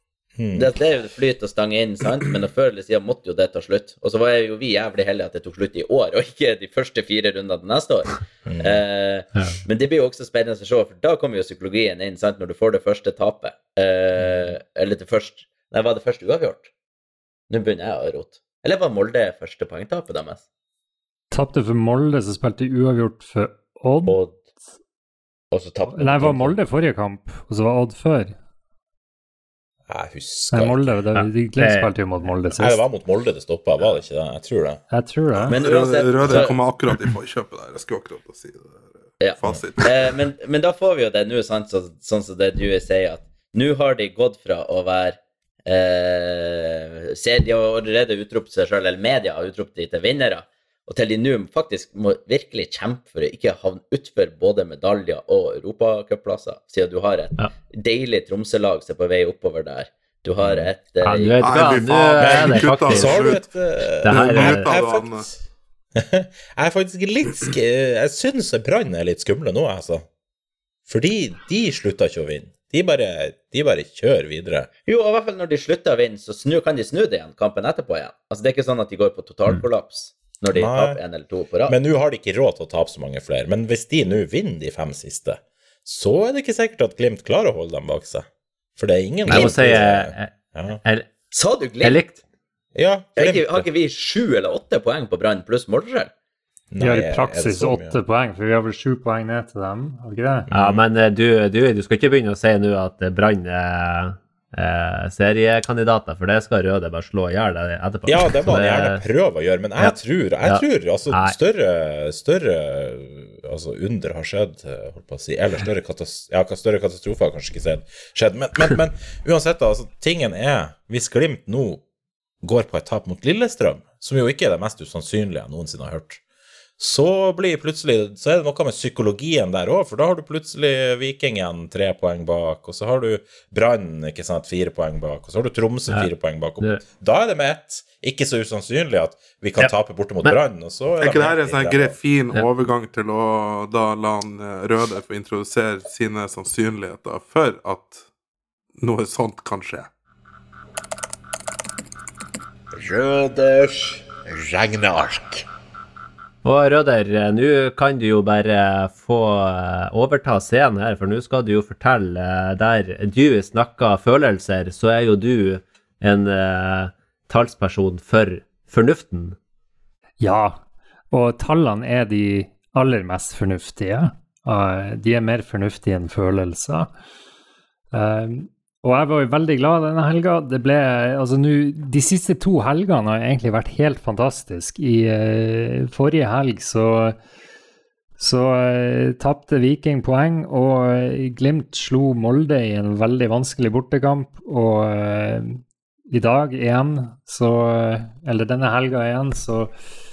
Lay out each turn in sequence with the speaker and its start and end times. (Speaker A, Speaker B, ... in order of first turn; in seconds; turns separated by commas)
Speaker A: 0.4-0.7, Speaker B: 0.5-16.7, Speaker A: 8.5-8.8, Speaker B: 17.5-20.4, Speaker C: 21.3-24.1, Speaker B: 24.1-24.3, Speaker B: 25.5-26.6, Speaker C: 25.9-28.3, Speaker A: 29.9-30.9, Speaker C: 30.5-32.8, Speaker D: 31.1-31.9, Speaker A: 32.6-34.8, Speaker C: 34.9-35.6, Speaker B: 35.5-36.6, Speaker E: 35.5-39.9, Speaker B: 39.2-61.6, Speaker A: 60.4-60.7, Speaker D: 61.0-63.3, Speaker E: 61.4-63.4, Speaker A: 62.2-65.3, Speaker D: 64.0-64.6, Speaker E: 64.1-65.3, Speaker A: 66.0-70.0, Speaker A: 70.9-74.7, Speaker B: 74.8-81.8, Speaker A: 80.5-81.0, Speaker A: 81.7-88.2, Speaker A: 88.8-90.8, Speaker D: 89.3-91.1, Speaker B: 89.3-89.6, Speaker B: 91.3-92.0, Speaker D: 91.8-92.2, Speaker A: 92.7-93.7, Speaker B: 93.1-96.1, Speaker A: 96.7-97.9, Speaker C: 96.8-100.5, Speaker A: 100.5-100.8, Speaker D: 100.5-109.0, Speaker A: 108.1-121.8, Speaker D: 109.8-111.3, Speaker A: 122.4-126.2, Speaker A: 126.8-142.0, Speaker D: 135.9-136.8, Speaker D: 139.6-140.4, Speaker E: 141.0-148.0, Speaker E: 148.8-149.9, Speaker A: 152.7-155.4, Speaker D: 156.4-169.4, Speaker C: 170.2-170.6, Speaker C: 171.1-176.9, Speaker C: 177.9-187.1, Speaker C: 188.2-199.7